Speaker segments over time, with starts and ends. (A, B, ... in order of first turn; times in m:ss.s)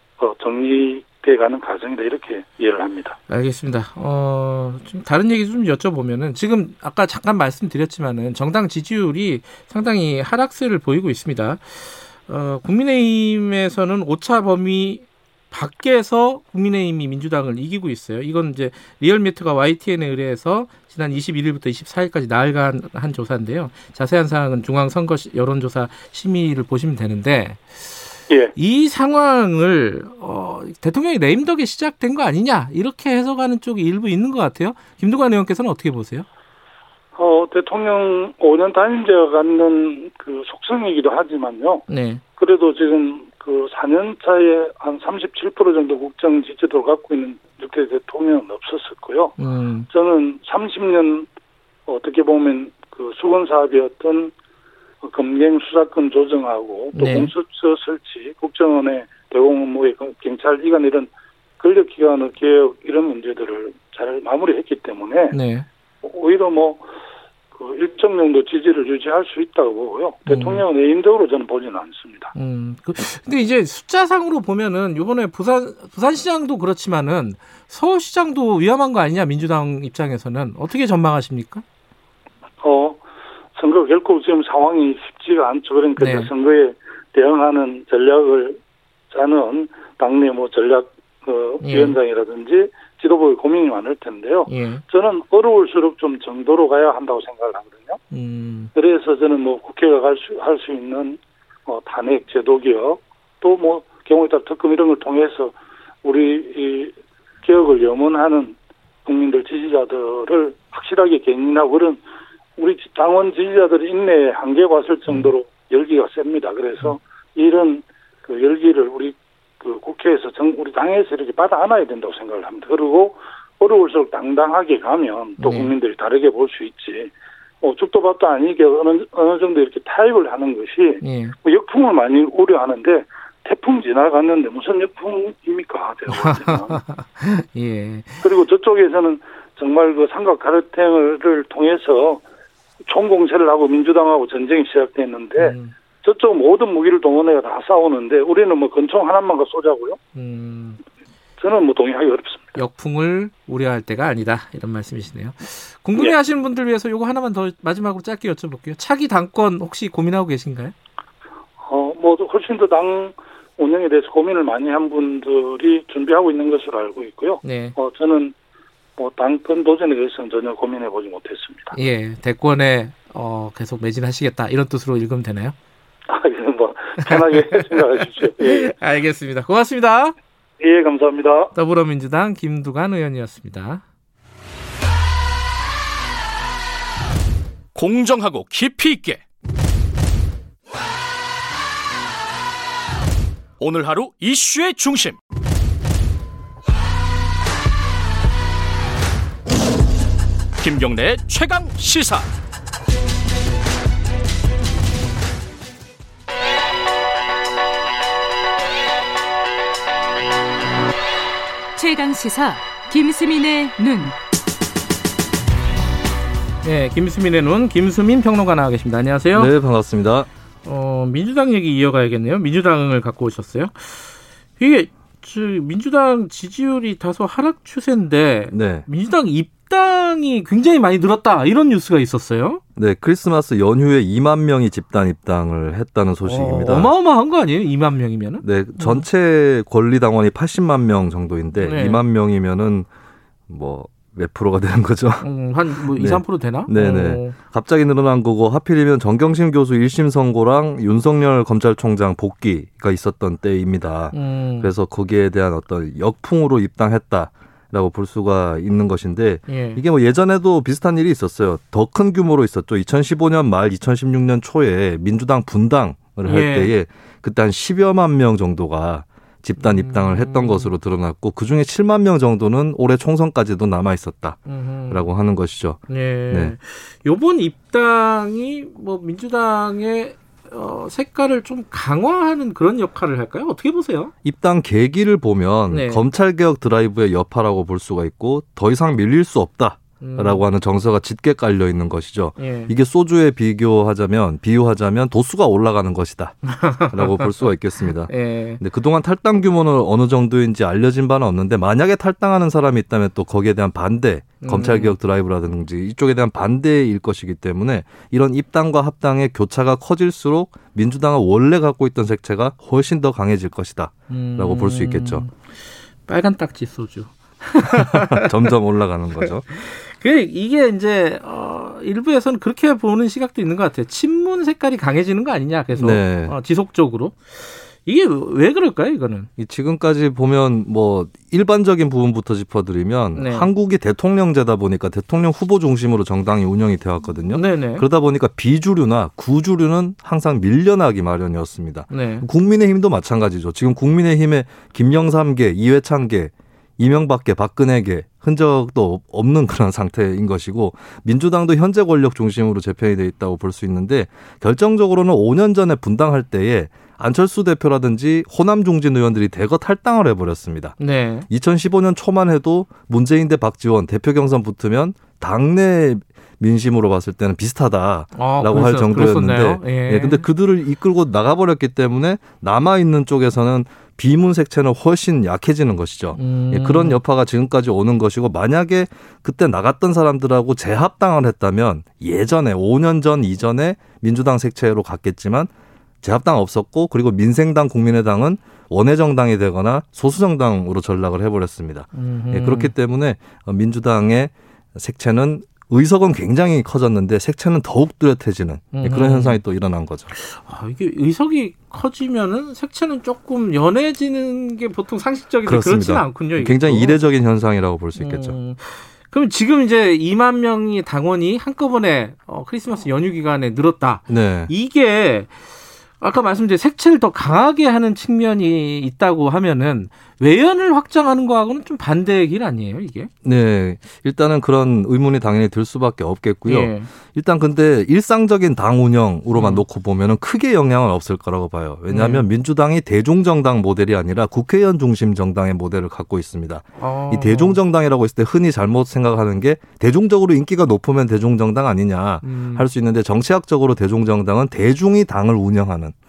0:00.2-0:03.2 A
0:03.3-0:27.9 B
0:28.6-0:36.3 B
0:37.2-0:41.8 A
0:41.9-0:42.2 B
0:42.4-0:49.4 A
0:49.4-0:49.9 B
0:49.9-0:51.3 A
0:51.9-0:54.3 A
0:55.0-1:05.4 A
0:56.9-0:57.3 B
1:05.3-1:05.7 B
1:06.0-1:06.8 A
1:07.6-1:12.3 A
1:10.3-1:10.6 B
1:12.3-1:21.6 B
1:22.6-1:23.0 A
1:23.6-1:28.6 A
1:26.0-1:26.3 B
1:29.1-1:38.0 A
1:31.6-1:32.0 B
1:34.5-1:34.8 B
1:38.1-1:38.7 B
1:38.8-1:52.0 A
1:52.6-2:07.1 A
2:05.4-2:05.7 B
2:07.6-2:16.8 A
2:11.0-2:11.4 B
2:16.1-2:18.2 B
2:18.2-2:22.2 A
2:22.9-2:30.0 A
2:25.4-2:25.7 B
2:30.2-2:30.8 B
2:31.4-2:32.6 A
2:32.6-2:40.7 B
2:41.6-2:48.3 A
2:47.4-2:47.8 B
2:49.0-2:51.7 A
2:51.7-2:55.6 B
2:56.1-2:58.7 A
2:57.0-3:00.2 B
3:00.6-3:01.5 A
3:01.5-3:03.8 B
3:07.8-3:09.2 C
3:13.6-3:15.2 C
3:20.6-3:22.3 C
3:31.8-3:34.2 D
3:36.6-3:39.5 B
3:39.3-3:40.3 E
3:40.6-3:52.6 B
3:48.5-3:48.9 E
3:52.8-3:56.9 E
3:56.2-3:59.1 B
3:58.4-4:02.9 E
4:01.6-4:02.0 B
4:03.5-4:36.6 E
4:05.2-4:07.4 B
4:14.1-4:14.7 B
4:19.5-4:19.8 B
4:26.3-4:26.7 B
4:29.6-4:30.8 B
4:34.5-4:35.0 B
4:35.9-4:44.1 B
4:44.2-5:15.3 E
4:45.7-4:46.1 B
4:50.0-4:50.4 B
4:52.4-4:52.7 B
4:56.5-4:57.4 B
4:58.1-4:58.6 B
5:04.4-5:05.0 B
5:14.1-5:15.4 B
5:16.1-5:18.5 B
5:17.8-5:19.5 E
5:19.2-5:29.3 B
5:25.8-5:26.4 E
5:29.4-6:00.8 E
5:33.2-5:33.5 B
5:37.3-5:37.9 B
5:41.9-5:42.2 B
6:00.8-6:01.3 B
6:01.3-6:25.5 E
6:08.2-6:10.3 B
6:16.2-6:17.0 B
6:26.0-6:40.1 E
6:31.9-6:32.7 B
6:38.7-6:39.4 B
6:40.2-6:47.0 B
6:45.4-6:48.4 E
6:48.0-6:55.3 B
6:54.1-6:54.5 E
6:56.0-7:03.1 B
7:03.2-7:25.9 E
7:06.5-7:06.9 B
7:09.4-7:09.6 B
7:11.9-7:12.3 B
7:16.8-7:17.6 B
7:22.2-7:22.7 B